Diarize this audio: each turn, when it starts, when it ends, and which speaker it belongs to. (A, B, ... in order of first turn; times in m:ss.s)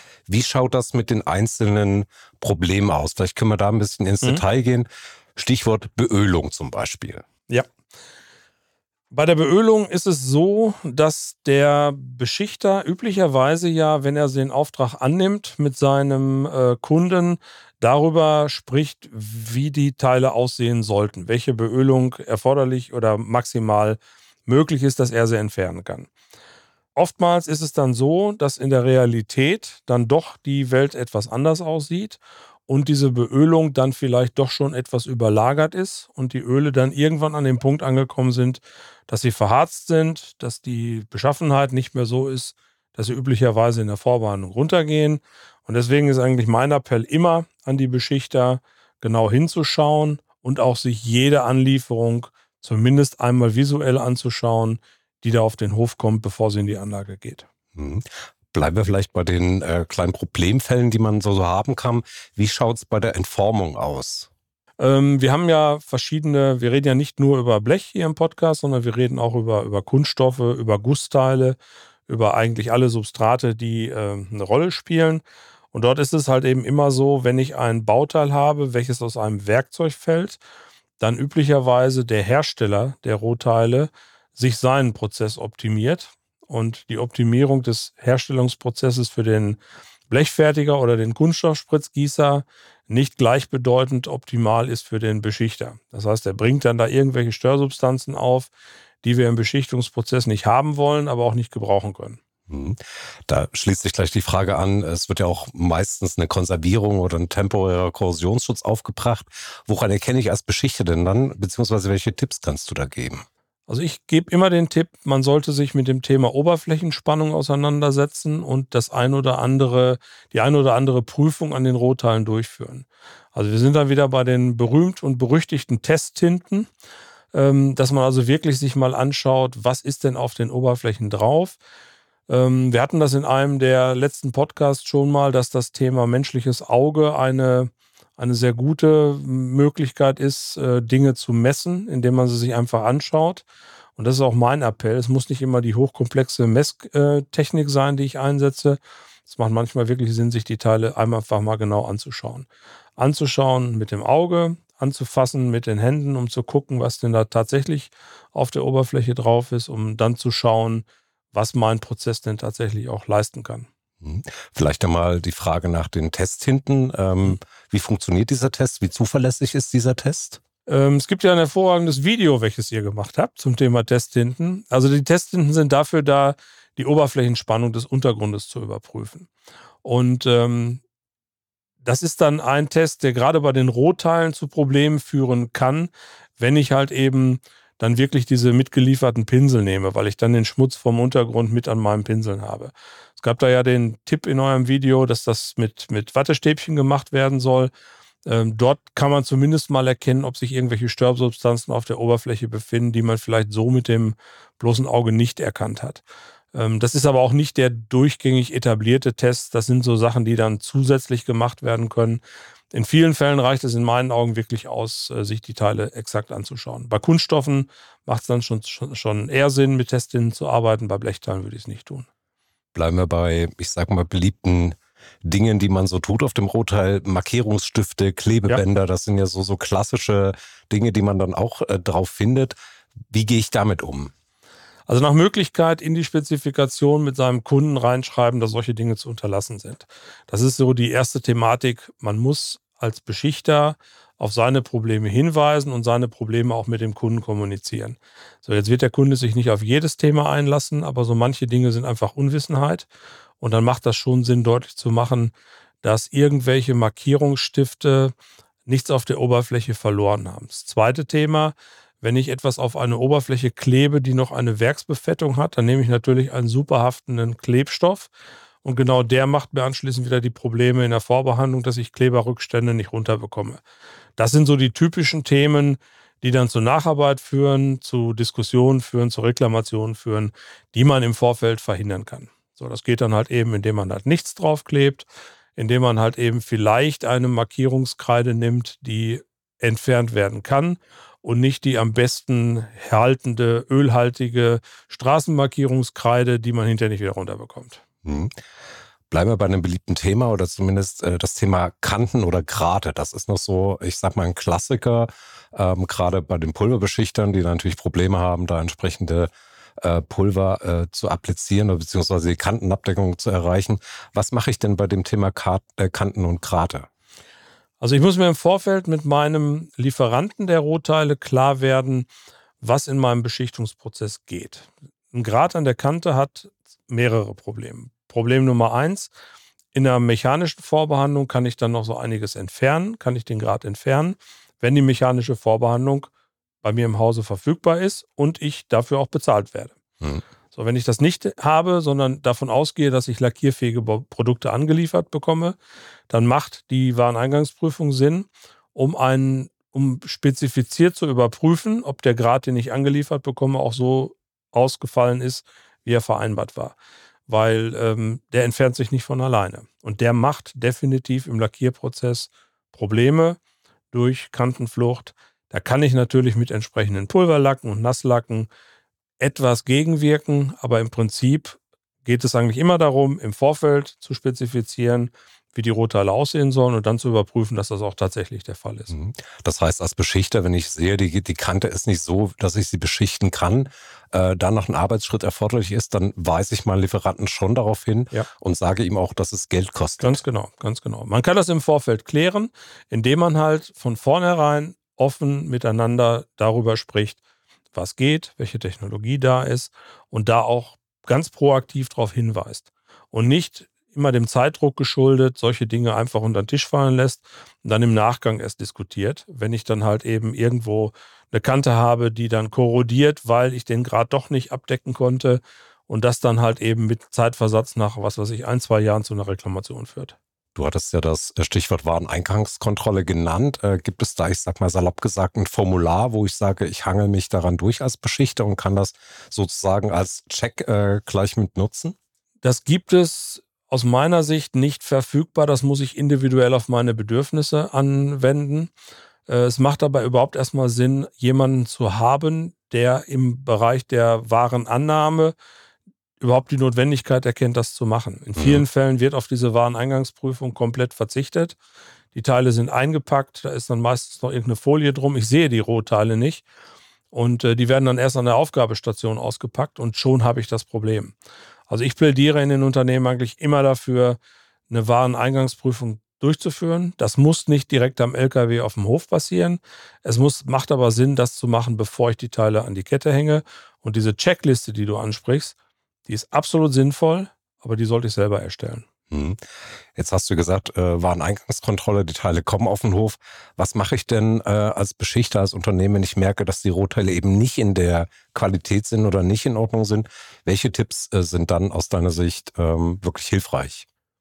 0:00.3-0:07.2 A
0:09.1-0:26.1 B
0:27.0-0:57.5 B
0:57.8-1:04.3 A
1:04.8-1:20.4 B
1:21.0-1:38.5 B
1:39.0-1:42.2 B
1:42.5-1:53.2 A
1:53.7-2:06.7 B
2:07.3-2:11.6 B
2:12.3-2:23.4 B
2:24.0-2:43.7 B
2:44.0-2:50.4 A
2:50.7-2:59.3 B
2:59.8-3:00.8 B
3:01.8-3:17.7 B
3:18.3-3:26.0 B
3:26.5-3:32.2 B
3:32.7-3:42.1 B
3:42.8-3:52.5 A
3:53.1-3:54.1 A
3:54.9-4:12.9 B
4:13.4-4:18.1 B
4:18.6-4:28.1 B
4:28.6-4:33.6 B
4:34.2-4:57.8 B
4:58.0-4:58.3 A
4:59.1-5:09.3 A
5:09.8-5:16.9 A
5:17.8-5:22.1 B
5:22.6-5:29.1 B
5:29.7-5:36.1 B
5:36.6-5:39.8 B
5:40.5-5:45.6 B
5:46.1-5:56.8 B
5:57.3-6:03.4 B
6:03.9-6:08.5 B
6:09.2-6:18.9 B
6:18.9-6:30.2 A
6:30.0-6:37.2 B
6:37.7-7:00.2 B
7:00.6-7:11.9 A
7:12.4-7:18.7 B
7:19.3-7:25.4 B
7:26.2-7:31.6 B
7:28.4-7:28.6 A
7:32.1-7:36.4 B
7:37.1-7:41.1 B
7:41.7-7:44.2 B
7:44.7-7:55.5 B
7:56.1-7:58.8 B
7:59.1-7:59.4 A
8:00.0-8:13.8 A